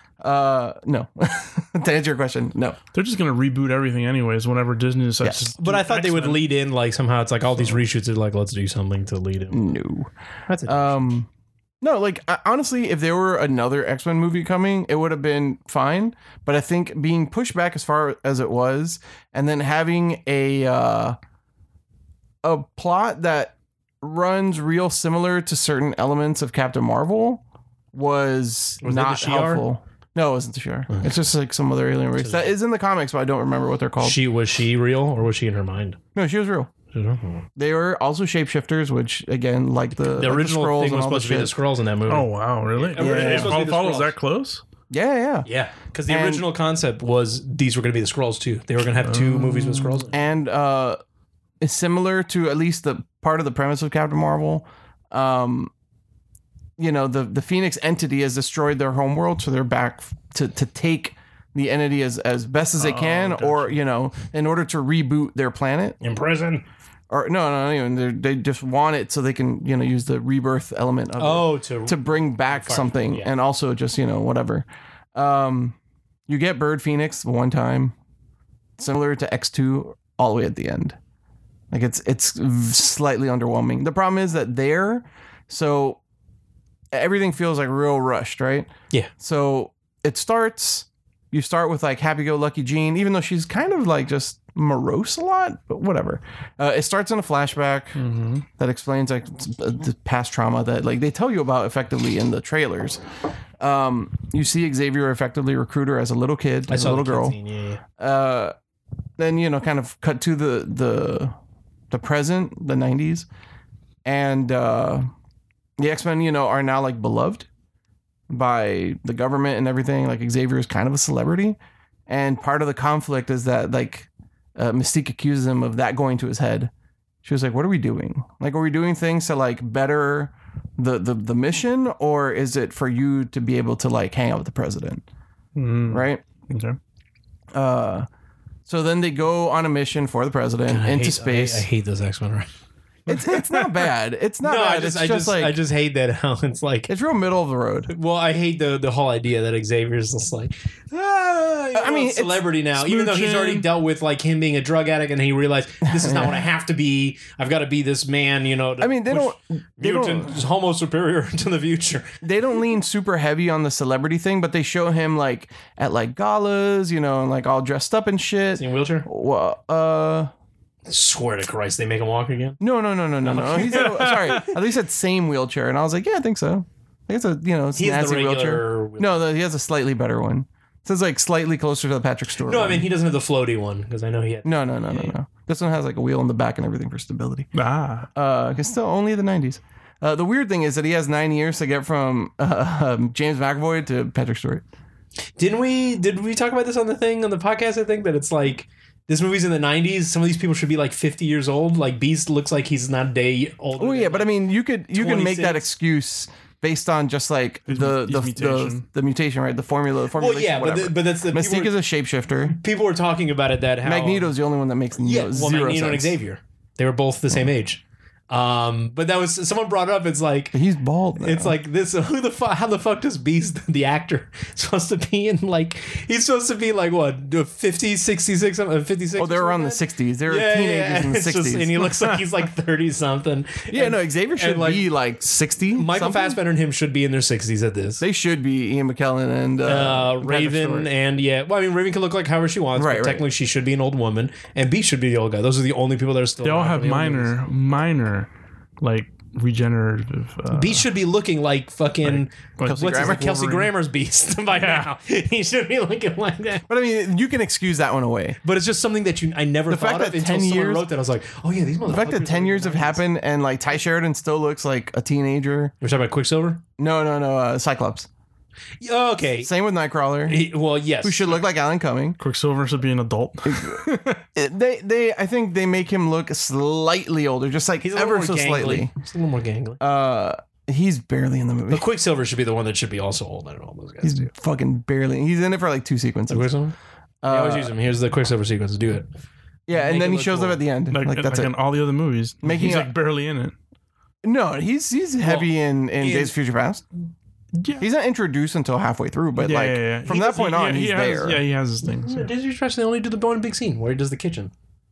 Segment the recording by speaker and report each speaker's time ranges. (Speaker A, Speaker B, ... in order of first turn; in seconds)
Speaker A: 0.2-2.8, 5.2-5.5, 9.5-10.1, 10.7-11.3, 11.8-21.2, 22.4-27.4, 27.9-34.2, 36.1-36.7, 37.6-41.5, 43.0-43.6, 44.9-45.5, 46.1-46.5, 50.1-51.0, 51.6-55.7, 56.8-66.0, 67.1-75.8, 76.3-78.0, 78.8-81.0, 81.7-86.0, 86.9-98.0, 98.6-103.0, 103.6-107.4, 108.0-108.5, 109.2-111.3, 111.9-113.3, 114.0-115.1, 115.8-117.5, 118.3-121.6, 122.1-126.7, 127.2-135.0, 135.9-136.2, 137.5-138.1, 138.7-141.7, 143.1-145.6, 146.9-147.9, 150.9-153.7, 155.9-156.4, 158.8-160.4, 162.2-170.3, 172.6-182.9, 184.4-187.5, 188.2-194.6, 203.8-212.6, 213.8-216.2, 220.5-221.6, 229.2-231.9, 233.7-236.4, 238.0-240.9, 242.8-243.3, 252.6-253.7, 256.7-258.4, 259.7-260.9, 261.9-265.7, 266.8-268.1, 269.4-270.4, 271.0-272.2, 273.5-273.8, 274.4-278.9, 279.8-281.8, 284.0-286.5, 287.2-287.7, 289.7-291.5, 292.4-292.9, 294.2-296.9, 297.8-301.4
Speaker B: 2.9-6.5, 7.6-7.8, 42.1-44.6, 49.0-50.1, 62.8-63.8, 98.0-98.5, 135.6-136.8, 143.1-143.9, 173.8-174.4, 187.6-188.1, 207.7-208.9, 246.4-248.3, 248.8-250.9, 252.1-252.9, 254.5-254.9, 272.2-274.2, 290.9-293.6, 297.6-297.9, 299.4-302.3
Speaker C: 5.6-9.7, 10.5-11.0, 28.8-29.7, 32.2-32.5, 34.0-36.0, 36.9-37.5, 40.1-44.1, 45.5-50.1, 66.0-66.7, 71.2-73.3, 106.7-107.8, 140.7-142.5, 144.4-146.9, 147.9-150.5, 151.7-162.2, 168.6-169.1, 170.9-172.6, 173.2-174.5, 177.8-179.2, 182.4-185.1, 195.4-205.7, 210.1-211.8, 212.5-214.3, 215.0-220.6, 221.2-234.9, 235.7-238.0, 239.7-247.3, 250.5-256.6, 258.4-263.1, 265.8-266.6, 268.8-269.5, 270.3-271.2, 277.8-279.8, 281.7-284.3, 286.3-289.1, 289.7-290.6, 295.2-296.4, 301.9-304.5